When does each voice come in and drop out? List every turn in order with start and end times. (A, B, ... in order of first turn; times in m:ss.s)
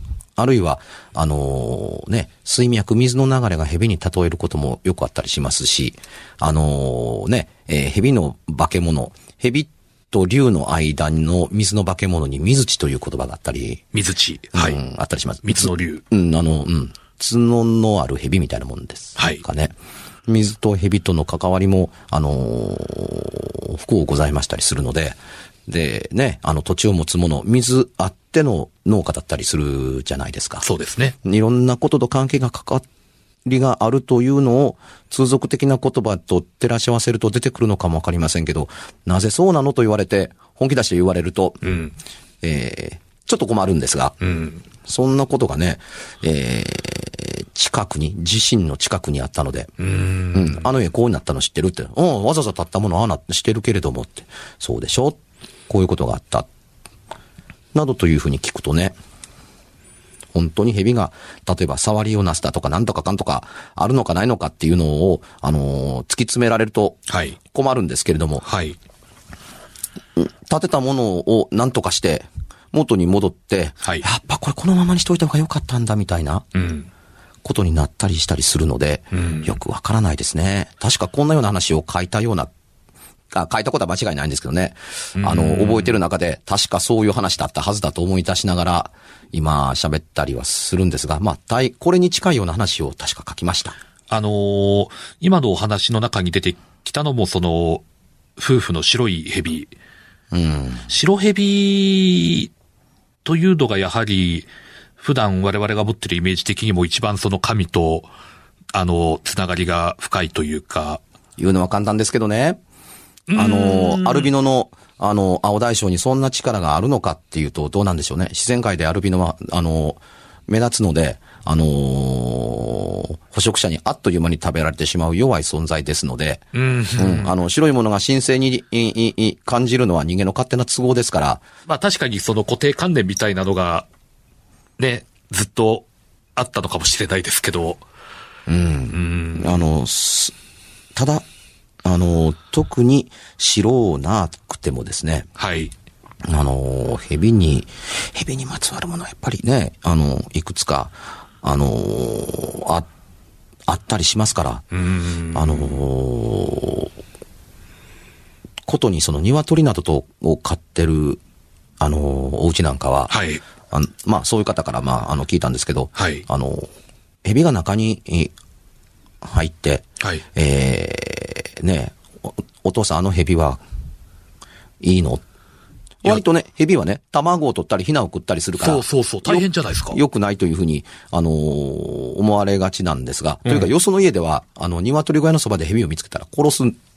0:00.4-0:13.8 A
0:13.9-0:14.8 B
0:14.5-0:19.7 A
0:15.4-0:16.0 B
0:19.2-0:19.4 B
0:20.3-0:30.6 A
0:30.6-0:31.2 B
0:31.2-0:32.8 A
0:33.4-0:41.7 A
0:41.6-0:41.9 B
0:42.4-0:44.2 A
0:44.2-0:44.6 B
0:44.8-0:49.7 A
0:49.8-0:50.7 B
0:50.3-0:55.2 A
0:55.7-0:56.5 A
0:57.7-0:59.0 A
1:00.3-1:08.4 A
1:07.1-1:07.4 B
1:08.4-1:08.8 B
1:10.2-1:16.5 A
1:16.5-1:16.9 B
1:17.4-1:22.5 A
1:19.1-1:19.5 B
1:23.3-1:33.8 A
1:25.2-1:25.9 B
1:34.1-1:37.8 B
1:38.4-1:39.7 B
1:40.3-1:40.9 A
1:40.9-1:42.5 B
1:43.2-1:48.1 B
1:48.7-1:51.0 B
1:51.4-1:52.6 A
1:53.3-1:54.3 B
1:53.3-2:11.4 A
2:06.5-2:07.3 B
2:11.7-2:13.9 B
2:14.8-2:17.8 B
2:18.5-2:20.3 A
2:18.9-2:19.5 B
2:20.9-2:21.2 A
2:21.8-2:25.3 A
2:25.4-2:25.7 B
2:26.2-2:32.9 A
2:33.7-2:34.6 A
2:34.7-2:35.8 B
2:35.3-2:36.9 A
2:38.6-2:41.2 A
2:41.8-2:46.7 A
2:43.1-2:43.4 B
2:46.0-2:46.2 B
2:47.2-2:48.3 A
2:49.2-2:52.0 A
2:52.6-2:53.6 A
2:54.8-2:55.2 A
2:56.0-3:06.8 A
2:58.6-3:00.0 B